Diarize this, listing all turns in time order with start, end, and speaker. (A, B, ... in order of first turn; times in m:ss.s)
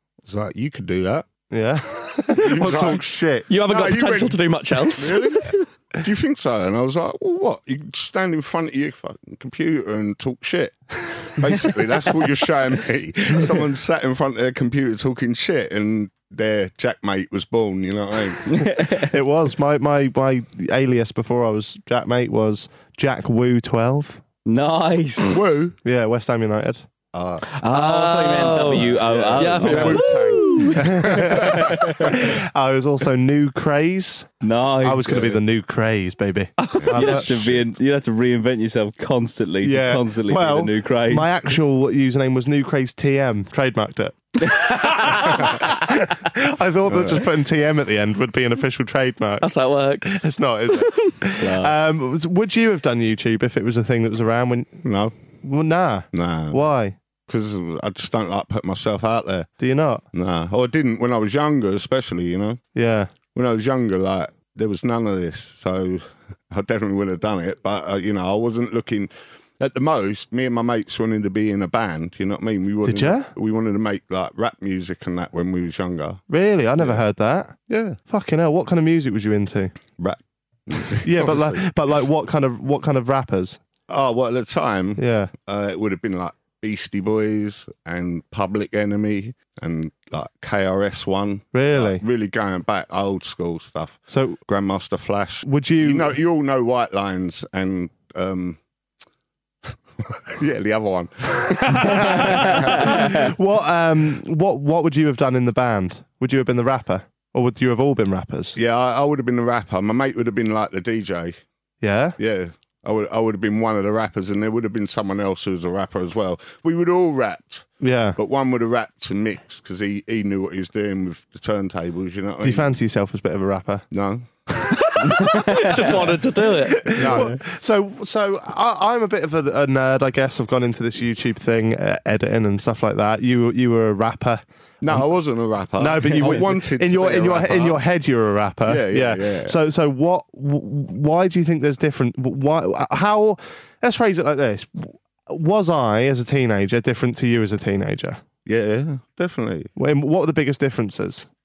0:00.2-0:01.3 A
0:01.5-0:03.5 B
0:02.3-0:18.6 A
0:03.5-0:05.4 C
0:18.5-0:19.1 D
0:18.9-0:24.2 B
0:24.4-0:25.4 D
0:25.3-0:25.8 A
0:25.8-0:26.8 B
0:27.1-0:27.4 A
0:27.5-0:30.9 C
0:27.6-0:32.1 D
0:29.0-0:32.2 A
0:30.7-0:34.3 B
0:34.4-0:35.3 D
0:34.8-0:37.5 B
0:36.6-0:37.0 C
0:36.8-0:37.6 A
0:36.9-0:41.3 D
0:39.6-0:49.5 B
0:44.8-0:45.2 D
0:46.9-0:47.3 A
0:49.4-0:51.1 C
0:50.0-0:54.8 B
0:51.4-0:51.8 D
0:54.8-0:55.1 A
0:55.4-0:57.0 B
0:56.1-0:56.6 A
0:57.3-0:59.5 A
0:59.6-1:00.0 B
1:00.1-1:02.6 A
1:02.7-1:03.1 B
1:03.3-1:16.2 A
1:12.8-1:13.3 B
1:16.3-1:17.5 B
1:16.8-1:17.0 A
1:17.7-1:18.0 A
1:18.1-1:19.7 B
1:20.0-1:21.6 A
1:21.0-1:23.6 B
1:23.9-1:38.6 A
1:25.0-1:25.3 B
1:31.5-1:32.0 B
1:34.1-1:34.4 B
1:35.4-1:36.1 B
1:40.0-1:43.3 A
1:41.6-1:48.6 B
1:42.5-1:43.0 D
1:48.5-1:51.4 A
1:51.8-1:52.2 B
1:52.2-2:02.7 A
1:57.8-1:58.2 B
2:02.4-2:03.8 B
2:03.9-2:04.3 A
2:04.7-2:07.1 C
2:05.0-2:05.7 B
2:06.6-2:15.0 B
2:06.9-2:07.4 A
2:14.8-2:17.8 A
2:15.8-2:28.2 B
2:18.6-2:19.6 A
2:28.4-2:29.7 A
2:29.8-2:31.3 B